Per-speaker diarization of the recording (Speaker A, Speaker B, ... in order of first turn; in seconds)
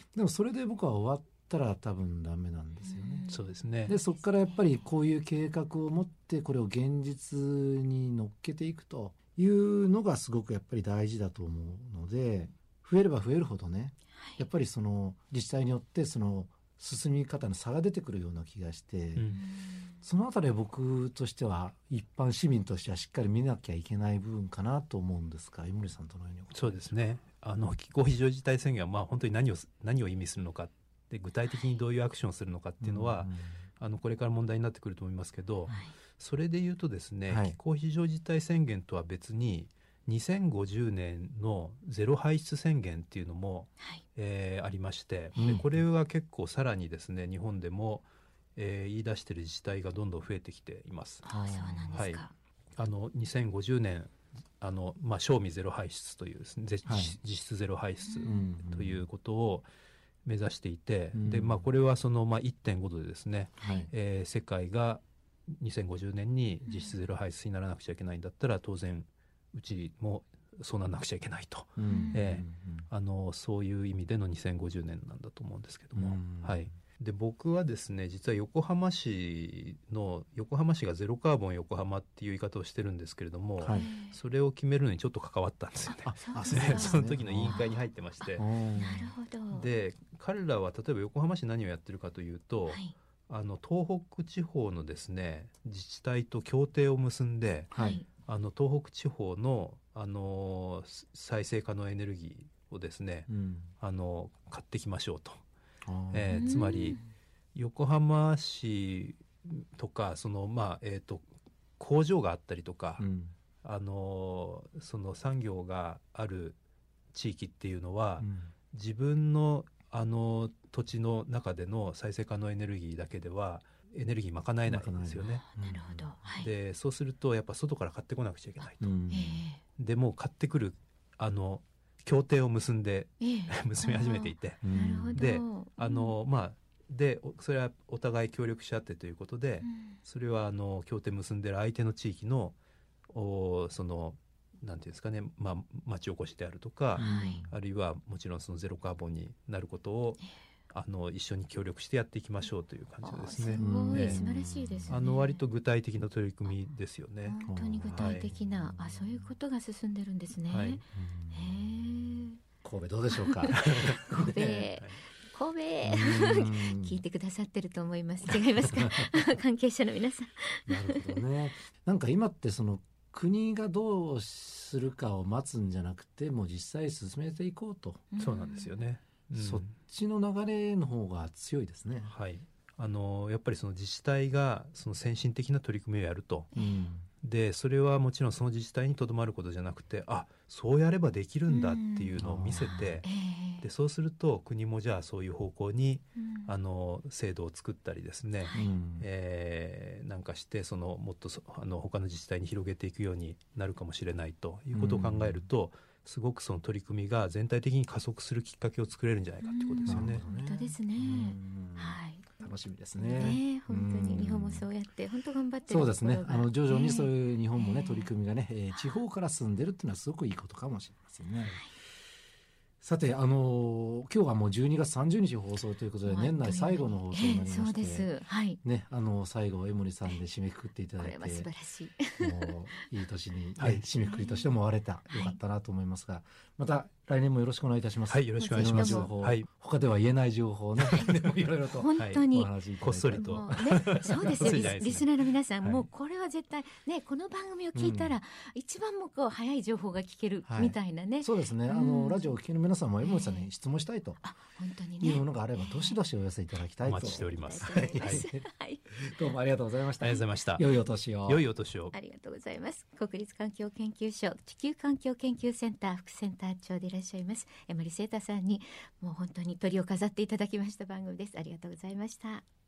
Speaker A: 0.1-3.3, 3.8-19.4, 20.0-26.9, 32.8-33.6, 37.3-37.6, 45.4-45.7, 51.3-52.0, 56.9-57.2, 58.2-59.0, 61.1-61.6, 63.6-63.9, 71.8-72.9, 75.9-76.8, 83.6-83.9, 86.0-87.7, 88.4-89.1, 97.7-98.0, 103.3-103.7, 105.8-106.4, 113.0-113.3, 118.2-118.5, 124.7-126.1, 128.8-129.4, 134.6-135.2, 146.9-147.5, 153.5-155.0, 157.4-159.3, 160.9-164.7, 165.8-167.0, 168.3-169.2, 170.7-178.0, 179.3-182.1, 186.6-187.1, 192.2-193.0, 198.5-199.1, 204.7-205.4, 209.8-214.7, 215.7-221.6, 222.8-231.5, 232.2-244.7, 247.7-248.2, 250.4-254.2, 255.0-261.4
Speaker B: 2.8-4.8, 14.2-14.4, 19.3-19.9, 35.7-35.9, 45.4-45.6, 51.2-52.3, 58.0-58.5, 63.6-63.9, 66.7-66.9, 71.9-72.2, 83.7-84.2, 85.9-89.7, 92.7-92.9, 97.7-98.0, 106.3-107.1, 125.3-126.5, 129.1-129.6, 133.2-136.2, 139.6-140.0, 147.0-147.5, 153.0-155.4, 157.2-162.4, 164.1-171.1, 178.1-178.8, 186.5-186.8, 191.5-192.2, 193.0-193.7, 196.2-196.5, 209.4-212.4, 213.0-218.1, 218.7-219.0, 221.4-221.7, 226.0-228.6, 231.0-232.6, 234.0-234.5, 235.1-235.4, 238.4-239.1, 241.7-242.5, 243.1-252.4, 253.0-253.5, 254.2-256.0, 257.0-258.9, 261.9-272.4
Speaker C: 3.3-3.9, 19.1-19.4, 26.5-51.2, 51.9-52.2, 52.8-59.7, 60.2-88.5, 89.5-97.7, 98.2-103.3, 103.8-105.4, 106.1-107.0, 107.5-111.2, 111.8-113.0, 113.6-116.6, 117.1-125.4, 126.4-128.9, 129.8-134.6, 135.1-142.6, 143.1-154.2, 154.9-157.4, 157.9-158.3, 160.5-160.8, 163.5-164.0, 178.2-179.7, 182.0-186.5, 187.2-193.1, 193.6-210.2, 238.1-239.5, 242.0-242.2, 242.8-245.9, 256.8-258.2, 260.0-260.7, 261.2-261.9